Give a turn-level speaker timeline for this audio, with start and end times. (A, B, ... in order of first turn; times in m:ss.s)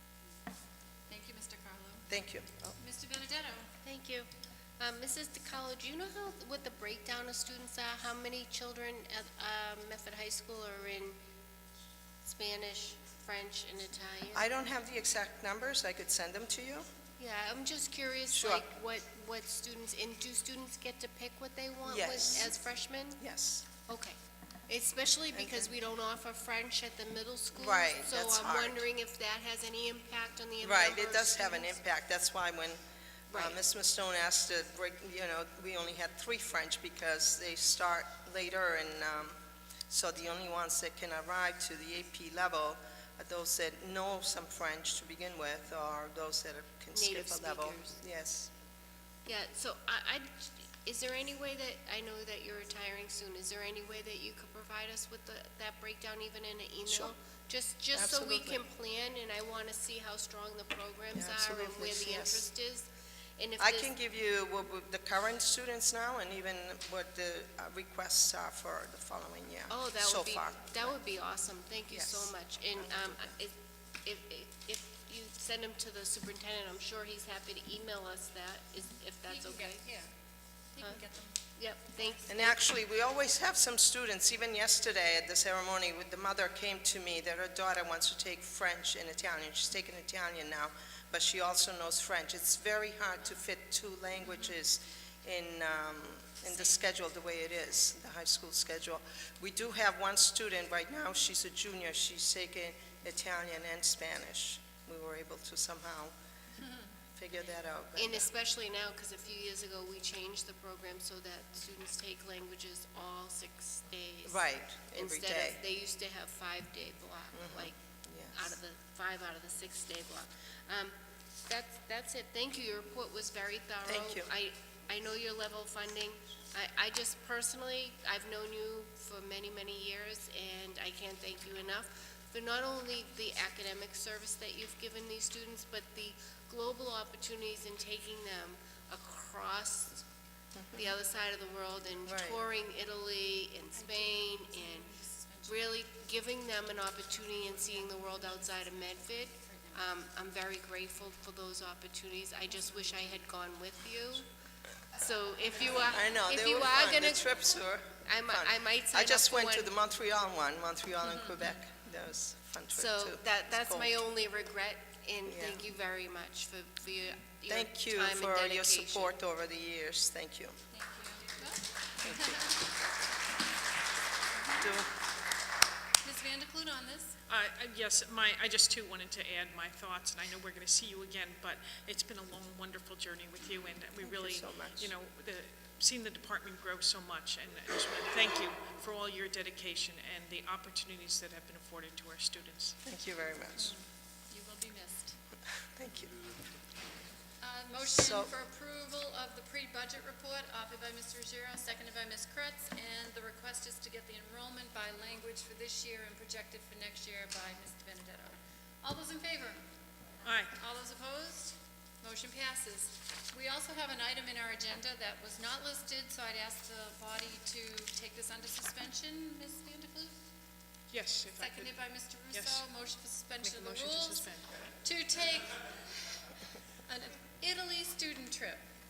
0:01.1-0:02.1 A
0:02.1-0:02.8 B
0:02.8-0:03.7 A
0:03.8-0:11.2 C
0:12.2-0:14.4 C
0:14.4-0:16.8 B
0:17.2-0:23.2 C
0:18.3-0:18.7 B
0:21.8-0:22.6 B
0:23.2-0:23.7 B
0:23.9-0:24.2 C
0:24.7-0:31.8 C
0:25.3-0:25.7 B
0:27.6-0:28.8 B
0:30.6-0:32.8 B
0:33.3-0:33.6 C
0:33.3-0:39.4 B
0:39.9-0:48.5 B
0:46.9-0:48.0 C
0:49.3-1:03.9 C
0:56.9-0:57.1 B
0:57.9-0:58.6 B
1:01.1-1:02.4 B
1:03.6-1:10.9 B
1:09.7-1:19.9 C
1:11.9-1:13.4 B
1:19.3-1:20.1 A
1:20.7-1:21.4 A
1:21.6-1:22.6 C
1:22.3-1:46.1 B
1:47.2-1:48.3 B
1:48.0-1:57.8 C
1:54.2-1:55.6 B
1:57.3-1:58.5 B
1:58.3-2:20.0 C
2:03.8-2:04.3 B
2:20.5-2:20.9 B
2:20.7-2:24.9 C
2:22.1-2:22.4 B
2:23.7-2:25.8 A
2:25.4-2:34.2 C
2:27.7-2:29.9 A
2:32.5-2:33.2 A
2:35.0-2:37.3 C
2:35.6-2:36.0 A
2:35.8-2:44.0 B
2:38.0-2:39.7 C
2:41.0-2:41.5 A
2:42.7-2:49.1 C
2:45.2-2:45.6 B
2:47.5-2:50.6 B
2:50.7-2:52.7 A
2:52.0-2:52.5 B
2:54.4-2:54.6 A
2:54.6-2:54.9 B
2:56.0-2:57.2 A
2:57.3-3:12.8 D
3:04.0-3:04.9 B
3:12.8-3:13.7 B
3:13.6-3:15.2 A
3:15.7-3:16.2 B
3:17.4-3:29.6 A
3:17.8-3:18.3 B
3:30.2-3:30.5 D
3:30.5-3:40.2 A
3:40.9-3:41.8 D
3:41.4-3:44.2 A
3:42.3-3:42.6 D
3:43.4-3:44.6 D
3:44.8-3:45.7 A
3:46.9-3:48.6 A